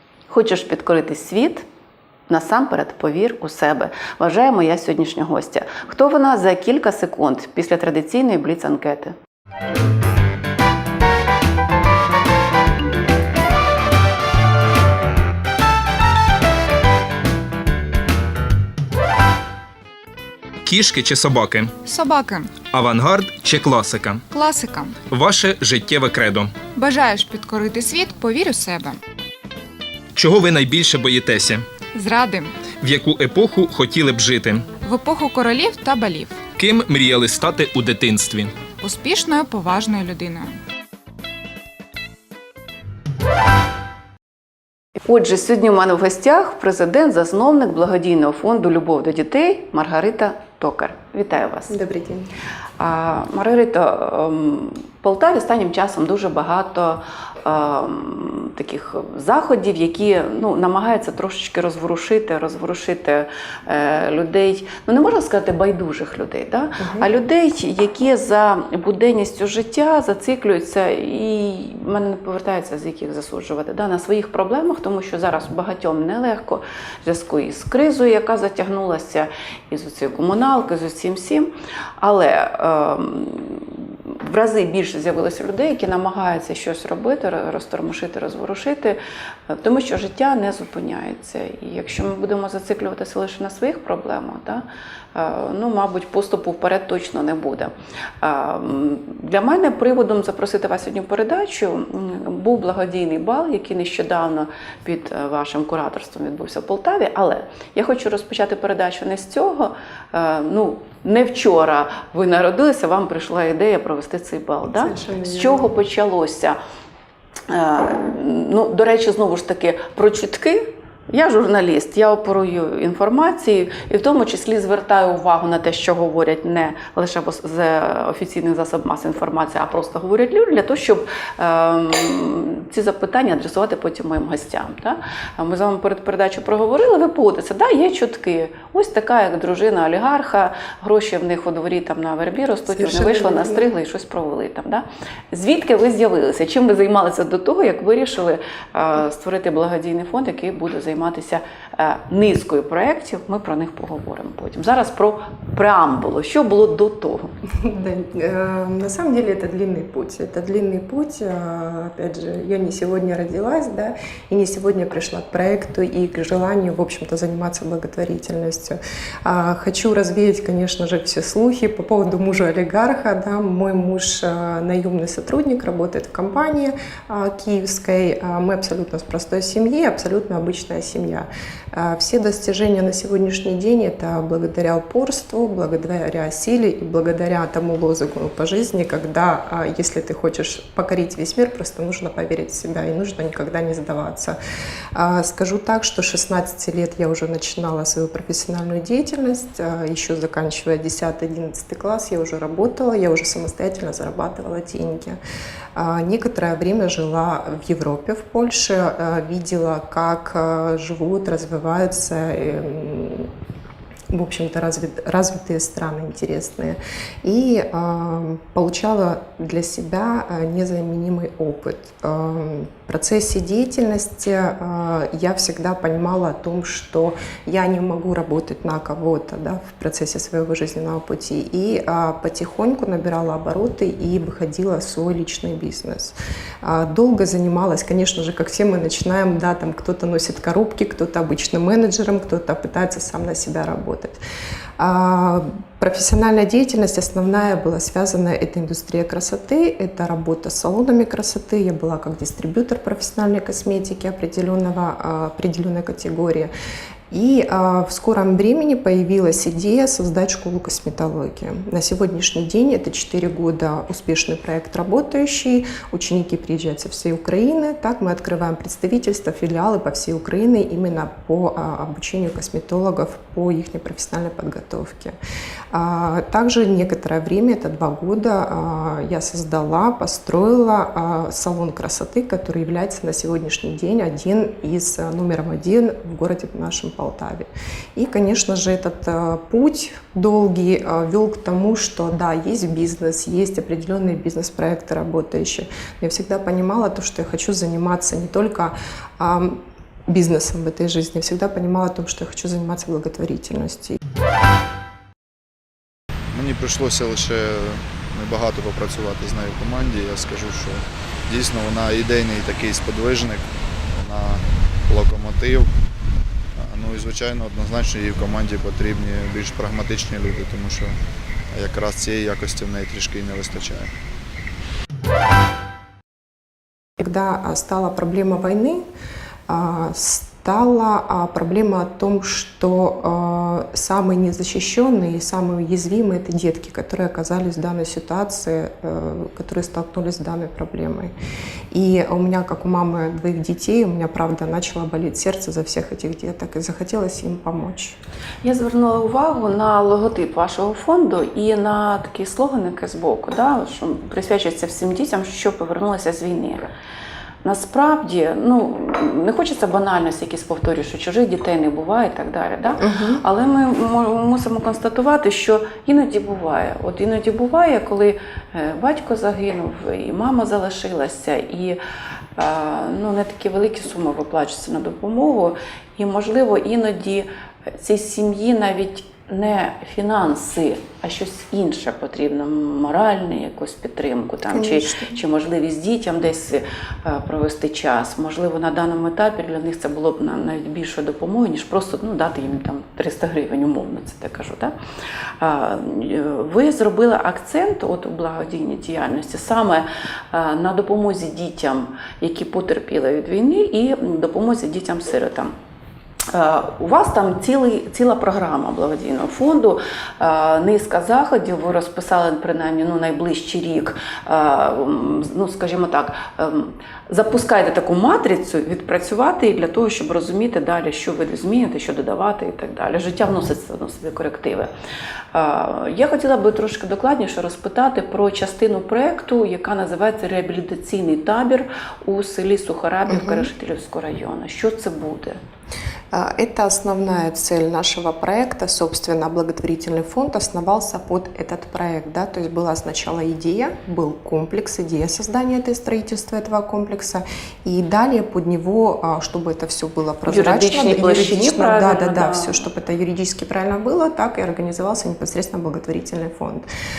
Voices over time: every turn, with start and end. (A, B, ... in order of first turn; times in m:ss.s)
0:00.3-0:01.7 A
0:02.3-0:09.2 A
0:20.6-0:21.8 B
0:21.8-0:22.6 C
0:22.6-0:24.2 B
0:24.3-0:25.0 C
0:25.1-0:26.6 B
0:26.7-0:29.0 C
0:30.2-0:31.7 B
0:31.9-0:32.6 C
0:32.7-0:34.7 B
0:34.8-0:36.5 C
0:36.6-0:38.6 B
0:38.8-0:40.6 C
0:45.1-0:51.8 A
0:51.7-0:52.3 D
0:52.8-1:34.6 A
1:06.8-1:07.1 D
1:35.2-1:56.6 A
1:54.7-1:55.7 D
1:57.5-2:37.3 A
2:22.7-2:23.7 D
2:37.6-3:14.4 D
3:14.9-3:25.2 D
3:25.8-3:33.3 D
3:34.1-4:04.2 D
4:04.8-4:16.5 D
4:17.1-4:35.2 D
4:35.7-5:04.0 D
5:06.3-5:15.7 E
5:16.6-5:20.9 E
5:21.5-5:23.9 E
5:27.0-5:28.8 D
5:29.5-5:41.1 D
5:41.7-5:48.0 D
5:48.4-5:56.7 A
5:57.4-6:11.8 A
6:02.8-6:03.2 D
6:12.4-6:34.7 A
6:24.5-6:25.2 D
6:35.4-6:45.5 A
6:46.3-7:04.7 A
7:05.3-7:15.4 A
7:13.1-7:13.5 D
7:16.1-7:36.7 D
7:30.3-7:32.6 A